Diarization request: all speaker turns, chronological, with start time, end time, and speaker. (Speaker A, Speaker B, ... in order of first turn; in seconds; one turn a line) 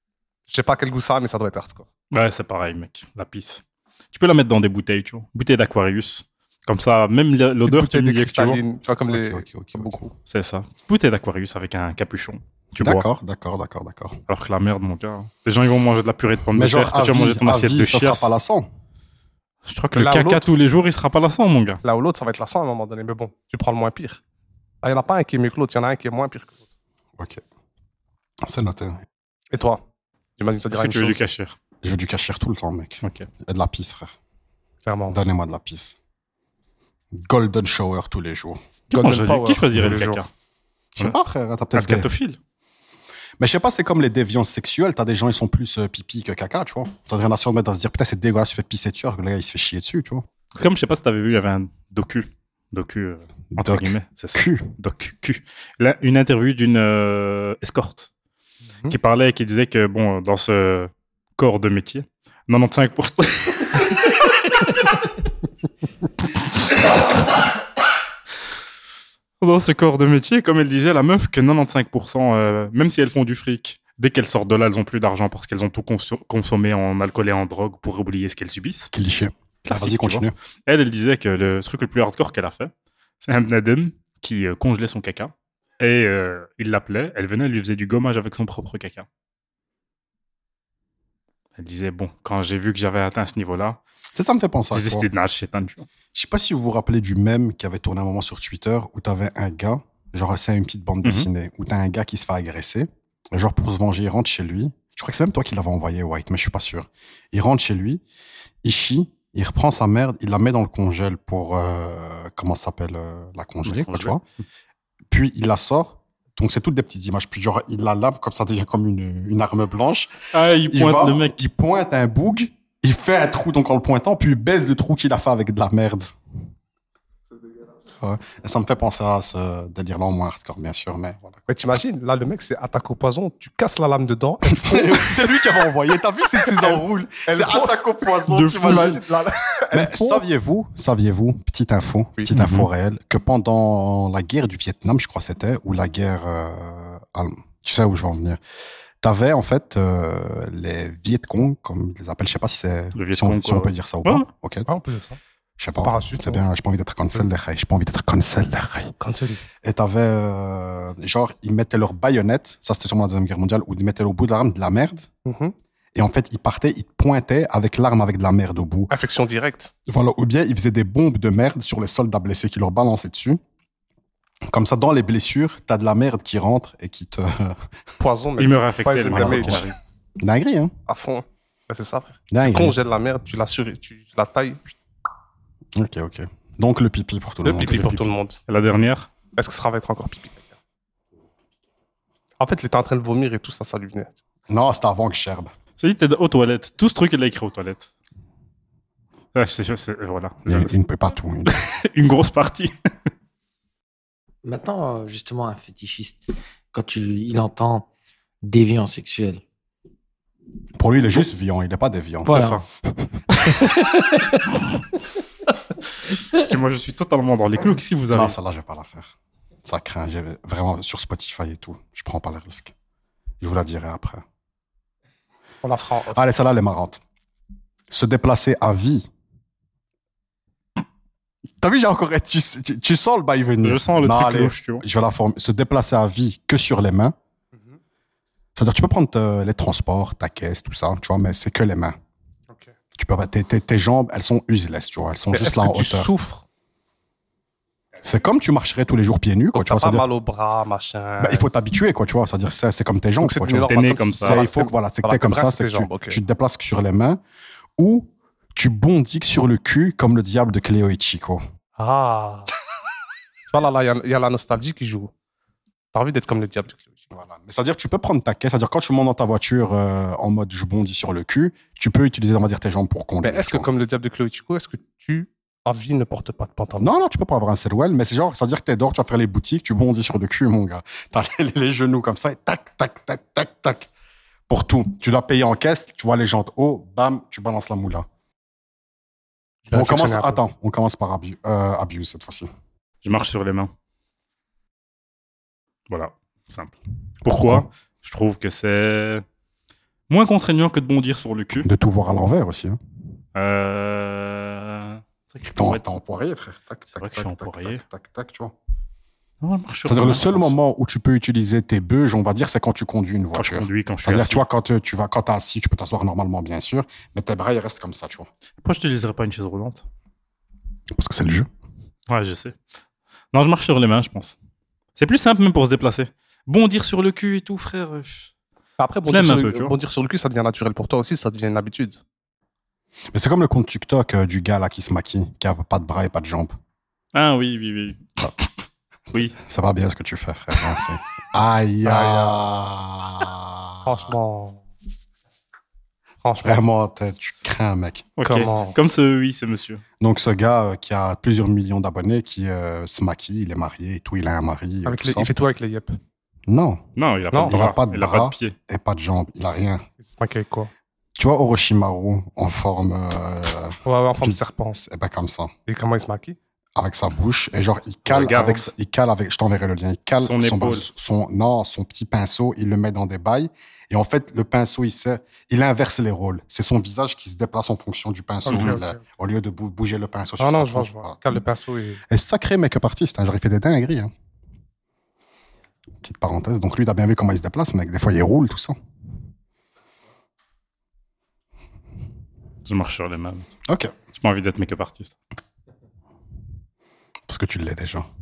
Speaker A: 0.5-1.9
Speaker B: 2.1-8.6
Speaker A: 7.6-10.1
Speaker C: 9.1-10.0
Speaker B: 10.3-13.1
Speaker C: 12.8-14.2
Speaker B: 14.3-18.3
Speaker C: 16.5-18.7
Speaker B: 19.6-21.8
Speaker A: 19.9-20.6
Speaker A: 21.8-24.2
Speaker A: 24.8-26.6
Speaker C: 28.4-29.0
Speaker A: 29.5-29.8
Speaker A: 30.4-31.2
Speaker B: 30.7-31.6
Speaker C: 31.8-34.1
Speaker B: 33.0-33.3
Speaker A: 34.8-35.2
Speaker C: 35.1-35.9
Speaker C: 37.1-38.6
Speaker B: 38.9-40.3
Speaker A: 38.9-40.2
Speaker C: 41.0-42.1
Speaker B: 41.7-42.4
Speaker C: 43.4-50.3
Speaker B: 50.5-58.1
Speaker C: 53.5-54.7
Speaker B: 58.9-64.1
Speaker B: 69.4-78.9
Speaker C: 78.9-80.3
Speaker B: 79.6-82.7
Speaker B: 83.2-89.0
Speaker B: 91.6-93.8
Speaker C: 94.1-95.0
Speaker B: 94.7-95.9
Speaker C: 96.1-108.0
Speaker B: 101.0-101.3
Speaker C: 108.6-114.2
Speaker B: 113.6-114.2
Speaker C: 115.1-126.1
Speaker B: 120.3-121.4
Speaker C: 127.9-131.4
Speaker A: 131.5-135.4
Speaker C: 134.5-139.0
Speaker A: 136.4-137.8
Speaker B: 138.3-138.8
Speaker A: 138.3-140.2
Speaker C: 139.7-148.4
Speaker B: 142.3-142.7
Speaker C: 149.0-154.7
Speaker B: 152.9-154.3
Speaker A: 154.7-155.2
Speaker C: 155.6-158.9
Speaker A: 155.8-156.4
Speaker A: 159.0-159.4
Speaker C: 159.6-165.1
Speaker A: 165.2-165.5
Speaker C: 165.9-168.9
Speaker A: 168.9-169.7
Speaker C: 169.9-173.4
Speaker C: 174.5-177.6
Speaker A: 178.0-179.7
Speaker B: 178.4-179.8
Speaker C: 179.1-179.7
Speaker C: 180.2-180.7
Speaker A: 180.9-184.7
Speaker C: 182.3-182.8
Speaker C: 185.7-188.1
Speaker A: 187.4-188.4
Speaker B: 187.6-187.9
Speaker B: 188.5-189.1
Speaker A: 189.3-190.5
Speaker A: 192.4-194.2
Speaker C: 194.5-195.5
Speaker B: 195.8-197.9
Speaker B: 199.3-200.7
Speaker C: 200.4-201.6
Speaker B: 201.5-202.7
Speaker D: 204.4-206.2
Speaker D: 206.7-207.9
Speaker D: 208.4-209.4
Speaker C: 210.8-213.1
Speaker D: 212.3-212.6
Speaker B: 212.3-212.6
Speaker B: 213.3-213.6
Speaker D: 213.5-214.4
Speaker B: 216.3-218.3
Speaker C: 218.1-222.7
Speaker C: 223.4-224.2
Speaker A: 225.6-226.3
Speaker C: 226.1-227.0
Speaker C: 227.9-229.1
Speaker C: 231.6-237.1
Speaker B: 233.6-234.8
Speaker C: 238.6-241.9
Speaker C: 242.9-246.1
Speaker A: 245.3-246.4
Speaker C: 248.0-250.1
Speaker A: 249.5-251.5
Speaker C: 251.2-257.2
Speaker A: 253.2-256.2
Speaker B: 253.7-254.4
Speaker C: 257.8-261.4
Speaker A: 261.8-262.5
Speaker A: 263.5-265.1
Speaker A: 265.9-267.1
Speaker C: 267.1-273.7
Speaker A: 273.2-276.9
Speaker C: 276.8-283.9
Speaker C: 284.5-288.1
Speaker A: 289.6-290.4
Speaker C: 289.7-292.5
Speaker B: 293.0-293.7
Speaker B: 295.9-299.2
Speaker C: 297.3-297.7
Speaker B: 300.1-301.7
Speaker C: 301.6-302.8
Speaker B: 303.4-305.8
Speaker C: 305.5-308.6
Speaker B: 306.9-307.8
Speaker B: 309.4-310.5
Speaker C: 309.9-318.3
Speaker B: 313.4-314.4
Speaker B: 318.6-319.8
Speaker C: 320.9-321.5
Speaker B: 322.1-322.6
Speaker B: 323.3-324.4
Speaker B: 325.0-328.3
Speaker A: 328.8-332.0
Speaker B: 329.1-329.8
Speaker C: 333.1-336.6
Speaker B: 337.1-338.3
Speaker B: 339.1-339.4
Speaker C: 339.4-344.1
Speaker A: 341.9-342.4
Speaker A: 343.8-344.6
Speaker A: 346.2-346.6
Speaker C: 346.4-348.1
Speaker B: 348.2-349.8
Speaker A: 348.2-348.8
Speaker C: 350.0-355.3
Speaker A: 354.9-356.0
Speaker C: 356.5-356.9
Speaker B: 357.0-358.6
Speaker C: 357.4-359.8
Speaker A: 360.0-360.7
Speaker C: 361.1-365.5
Speaker A: 363.9-364.8
Speaker A: 365.7-366.4
Speaker C: 366.8-381.2
Speaker B: 368.1-368.7
Speaker B: 370.2-370.9
Speaker A: 378.4-379.0
Speaker B: 378.5-378.8
Speaker A: 380.4-382.0
Speaker C: 382.1-384.1
Speaker C: 386.0-388.8
Speaker B: 392.6-393.5
Speaker C: 393.7-393.9
Speaker B: 394.1-395.1
Speaker C: 397.3-398.1